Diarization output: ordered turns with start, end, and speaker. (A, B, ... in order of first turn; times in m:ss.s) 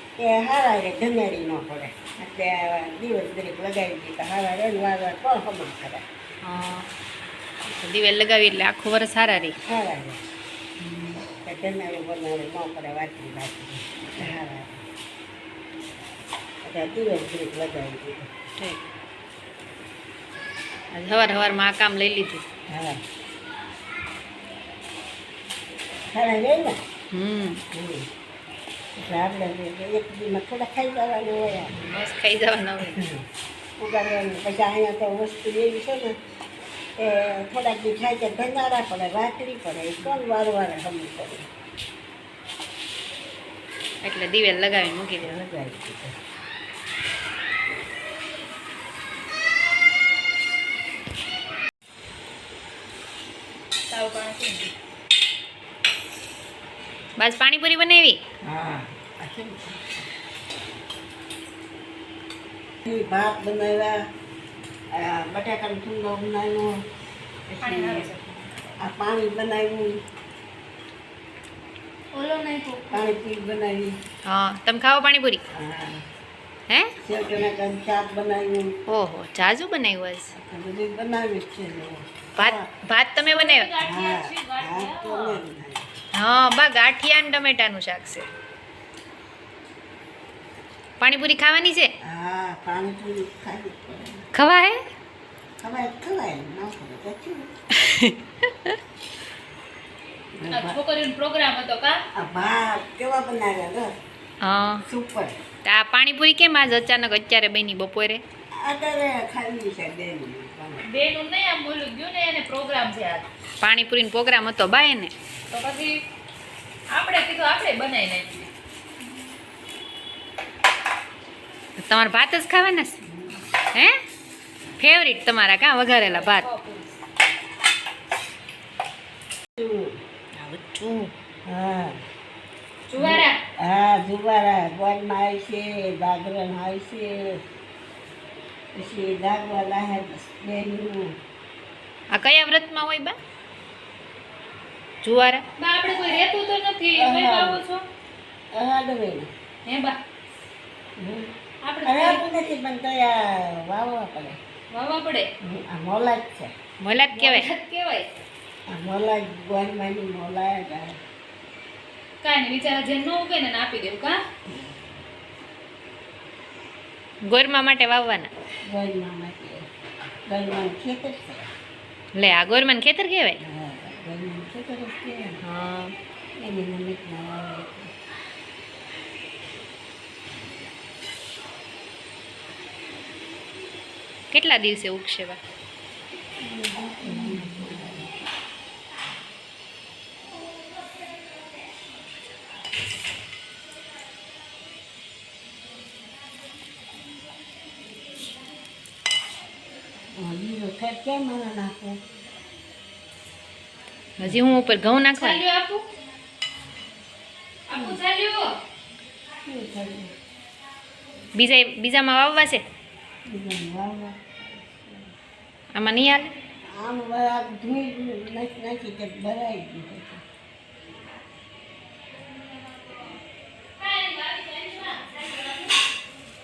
0:00.2-0:06.0 A
0:06.4-0:06.9 B
0:07.7-0:09.6 B
0:09.6-0:10.2 A
0:10.8-0:11.2 B
0:11.4-0:14.8 A
0:16.6-0:18.3 A
0:20.9-0:22.4 B
0:22.7-0:23.0 A
0:26.1-0:26.8 A
0:27.1-0:27.6 B
0:27.7-0:28.1 A
0:29.0-0:31.8 A
0:31.8-0:33.0 B
0:32.9-0:33.2 A
0:33.8-0:36.2 A
0:37.0-0:41.5 A
0:44.0-0:45.3 B
0:45.2-0:46.1 A
0:53.9-0:54.7 C
0:57.2-0:58.2 B
0:58.4-0:59.9 A
1:02.8-1:04.0 A
1:04.9-1:06.8 A
1:07.5-1:08.1 A
1:07.6-1:08.5 C
1:08.8-1:10.0 A
1:12.1-1:13.1 C
1:12.9-1:14.0 A
1:14.2-1:15.4 B
1:15.5-1:16.0 A
1:17.0-1:18.7 A
1:18.9-1:20.3 B
1:20.3-1:22.7 A
1:22.4-1:23.7 B
1:23.3-1:25.4 C
1:23.8-1:25.9 A
1:26.1-1:28.3 B
1:31.0-1:31.9 B
1:32.0-1:34.3 A
1:34.3-1:34.8 B
1:35.6-1:37.5 A
1:37.7-1:38.8 B
1:40.4-1:40.8 A
1:40.5-1:42.0 C
1:42.1-1:43.9 A
1:44.4-1:44.8 B
1:44.8-1:45.3 A
1:45.6-1:48.2 B
1:48.6-1:50.9 A
1:50.8-1:53.3 C
1:53.6-1:55.1 B
1:55.5-1:56.0 C
1:56.9-1:58.5 C
2:01.8-2:03.0 B
2:03.0-2:03.4 A
2:04.8-2:06.4 B
2:06.0-2:07.0 C
2:09.6-2:10.0 A
2:10.4-2:11.1 B
2:11.4-2:12.0 A
2:12.9-2:13.4 C
2:13.0-2:17.4 A
2:18.7-2:21.1 A
2:22.1-2:23.2 B
2:25.0-2:25.4 B
2:25.6-2:27.8 C
2:26.9-2:27.6 A
2:28.5-2:29.3 A
2:29.6-2:30.0 C
2:31.0-2:34.4 A
2:31.6-2:32.2 C
2:34.7-2:35.3 C
2:35.4-2:36.5 A
2:36.8-2:37.5 B
2:37.1-2:38.2 C
2:38.7-2:41.0 A
2:42.2-2:44.2 C
2:47.2-2:48.3 B
2:48.6-2:49.6 A
2:50.3-2:51.5 A
2:52.1-2:53.4 B
2:53.4-2:55.4 A
2:55.4-2:55.9 B
2:56.4-2:57.9 A
3:04.3-3:05.4 B
3:06.4-3:08.1 A
3:07.2-3:07.8 B
3:20.2-3:22.0 A
3:24.2-3:25.4 B
3:25.1-3:25.9 C
3:27.7-3:28.5 C
3:29.4-3:30.1 A
3:31.3-3:32.6 B
3:33.3-3:35.1 A
3:35.7-3:36.3 B
3:36.7-3:40.2 A
3:43.8-3:45.7 C